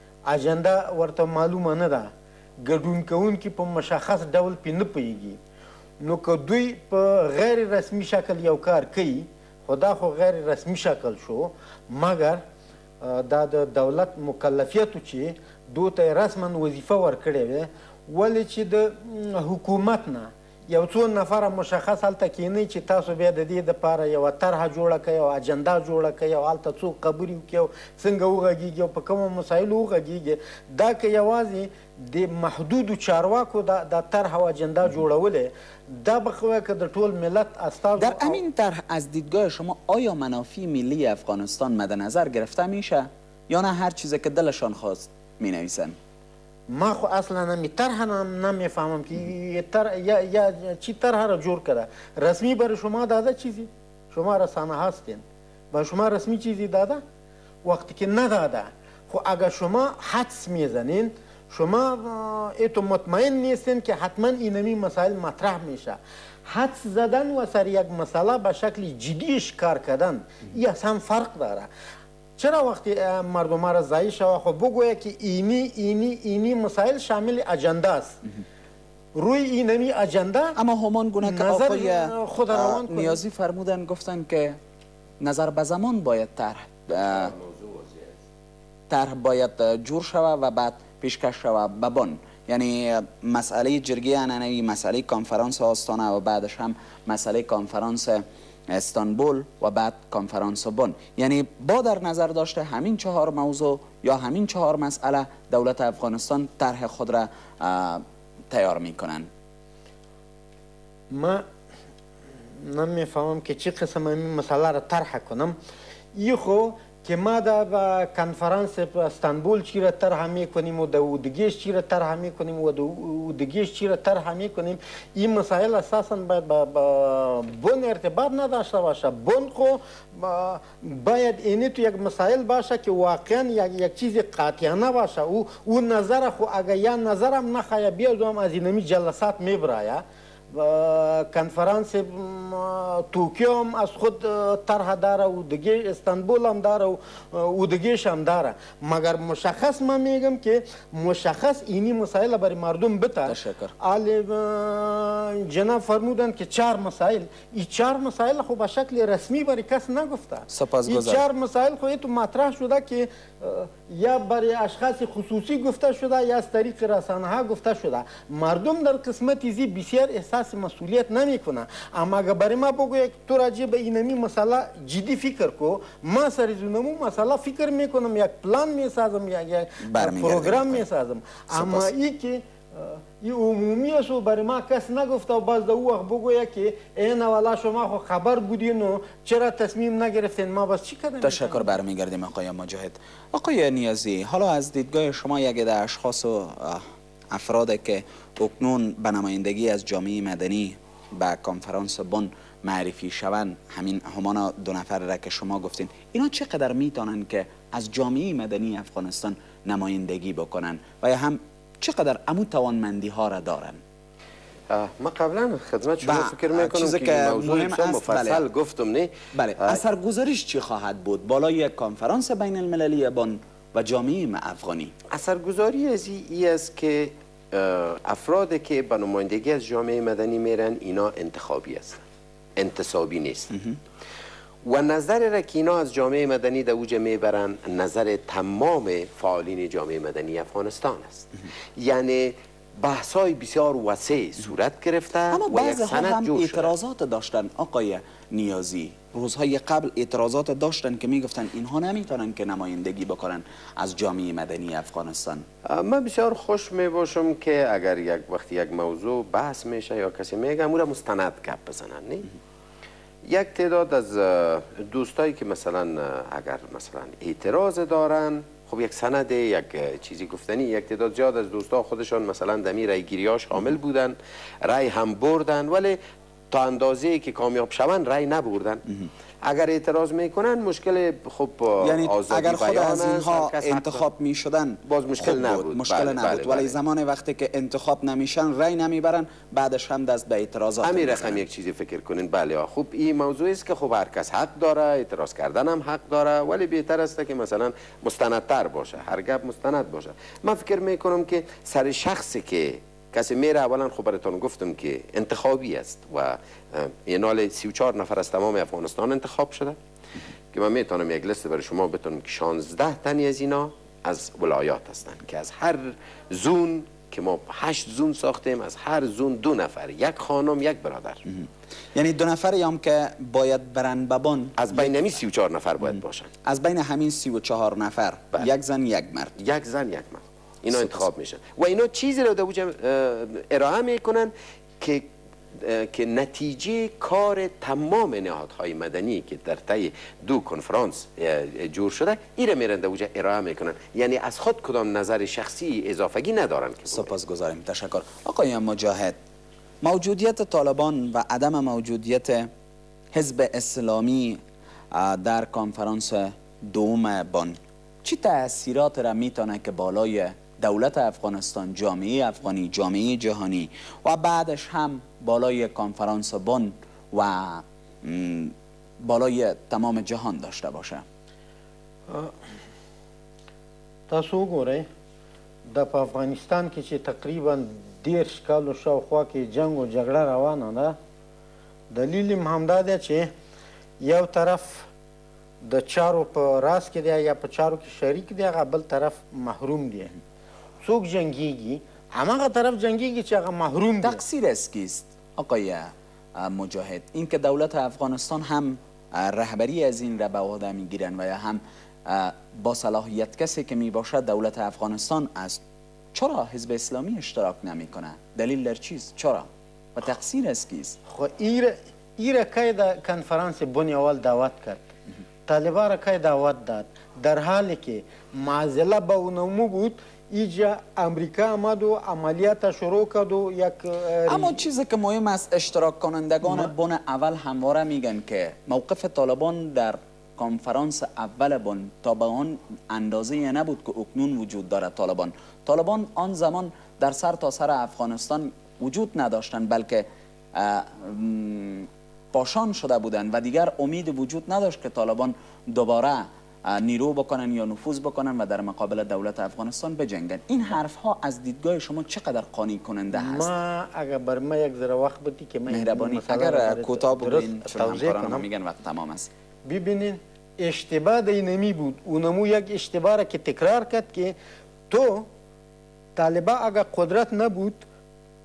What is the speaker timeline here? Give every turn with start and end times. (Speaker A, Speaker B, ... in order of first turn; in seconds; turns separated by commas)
Speaker A: 0.3-5.4, Speaker A: 6.0-12.4, Speaker A: 13.0-38.4, Speaker B: 38.0-46.0, Speaker A: 46.7-57.0, Speaker A: 57.6-71.7, Speaker A: 72.4-78.2, Speaker A: 79.1-80.6, Speaker B: 80.6-84.6, Speaker A: 81.2-83.2, Speaker B: 85.2-87.3, Speaker C: 86.9-88.2, Speaker B: 88.9-109.3, Speaker A: 111.1-111.4, Speaker A: 112.6-115.6, Speaker A: 116.2-191.8, Speaker B: 153.3-153.8, Speaker B: 160.5-161.2, Speaker B: 179.8-180.9, Speaker B: 181.5-181.9, Speaker B: 191.2-213.8, Speaker C: 214.7-219.8, Speaker B: 216.0-218.4, Speaker B: 219.3-224.9, Speaker C: 225.1-232.0, Speaker C: 232.6-233.6, Speaker C: 234.6-246.7, Speaker B: 245.3-255.5, Speaker C: 255.6-262.3, Speaker C: 263.2-276.0, Speaker C: 276.5-278.9, Speaker C: 279.4-284.1, Speaker B: 281.8-291.4, Speaker C: 284.9-286.8, Speaker C: 290.8-309.8, Speaker C: 310.5-321.2, Speaker B: 321.3-325.1, Speaker C: 324.6-326.3, Speaker B: 325.8-329.4, Speaker C: 329.4-347.1, Speaker B: 330.7-331.1, Speaker B: 346.9-349.2, Speaker B: 349.8-352.5, Speaker B: 353.1-354.4, Speaker B: 354.9-371.0, Speaker A: 374.1-374.9, Speaker A: 375.7-381.0, Speaker A: 381.9-383.3, Speaker A: 384.0-384.9, Speaker A: 385.6-390.1, Speaker A: 390.8-394.2, Speaker B: 394.0-405.6, Speaker B: 406.1-411.0, Speaker A: 411.1-414.8, Speaker A: 415.5-424.6, Speaker B: 424.3-453.5, Speaker A: 453.1-458.5, Speaker B: 455.7-459.3, Speaker A: 459.6-464.4, Speaker A: 464.9-465.3, Speaker A: 466.1-467.9